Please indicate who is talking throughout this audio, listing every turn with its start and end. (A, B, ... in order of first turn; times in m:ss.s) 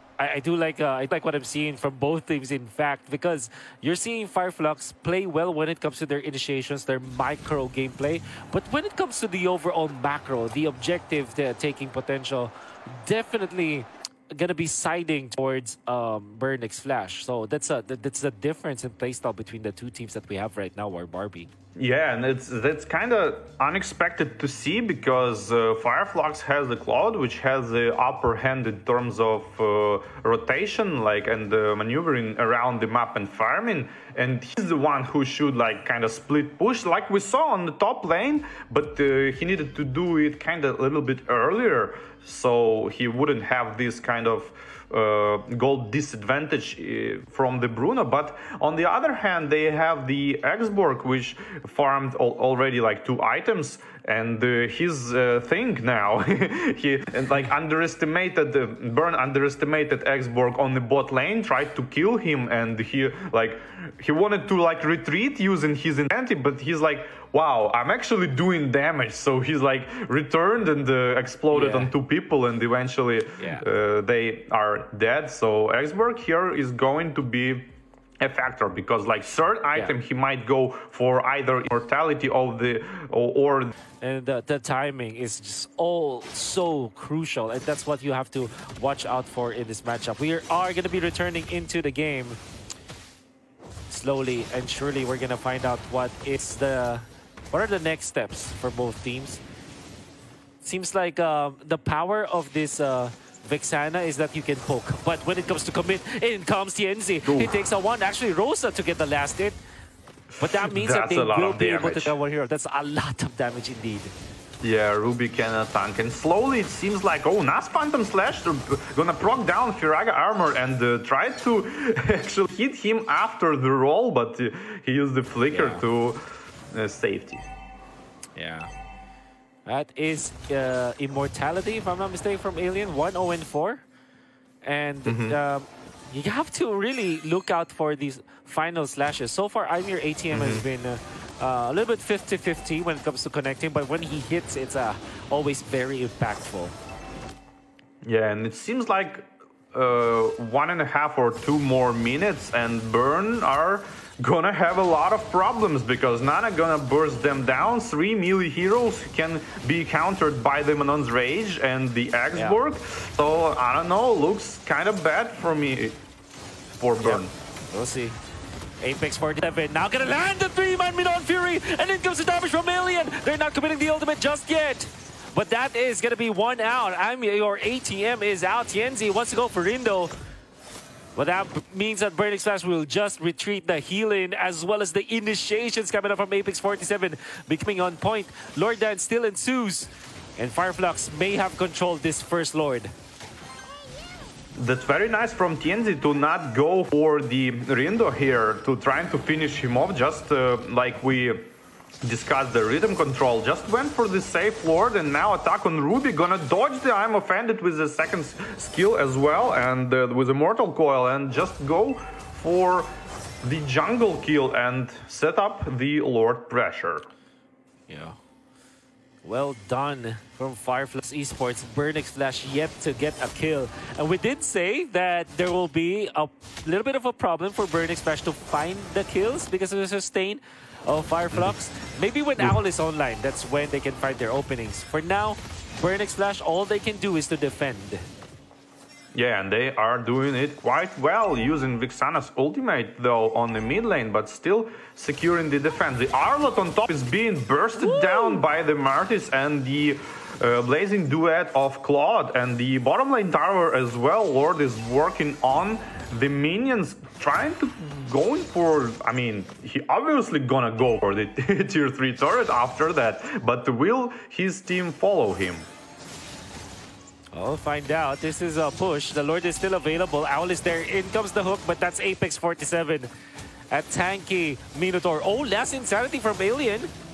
0:00.2-0:21.5 A
0:21.8-1:23.7 B
1:11.5-1:11.9 A
1:13.4-1:13.7 A
1:24.0-1:32.4 A
1:33.9-1:39.4 A
1:40.6-1:49.6 A
1:47.2-1:47.6 B
1:50.4-1:54.1 A
1:50.6-1:52.2 B
1:54.6-2:07.4 B
2:05.5-2:05.8 A
2:08.4-2:08.7 A
2:09.7-2:13.8 A
2:14.6-2:26.8 A
2:15.1-2:15.4 B
2:20.3-2:20.7 B
2:28.0-2:46.0 B
2:42.3-2:42.6 A
2:46.7-2:47.3 B
2:47.0-2:48.2 A
2:48.8-3:00.1 A
3:01.2-3:12.9 A
3:14.6-3:21.5 B
3:22.0-3:32.9 B
3:33.4-3:37.1 B
3:37.9-3:38.2 A
3:39.2-3:58.0 A
3:59.1-4:25.7 B
4:07.8-4:08.4 A
4:27.3-4:33.1 A
4:33.7-4:36.9 A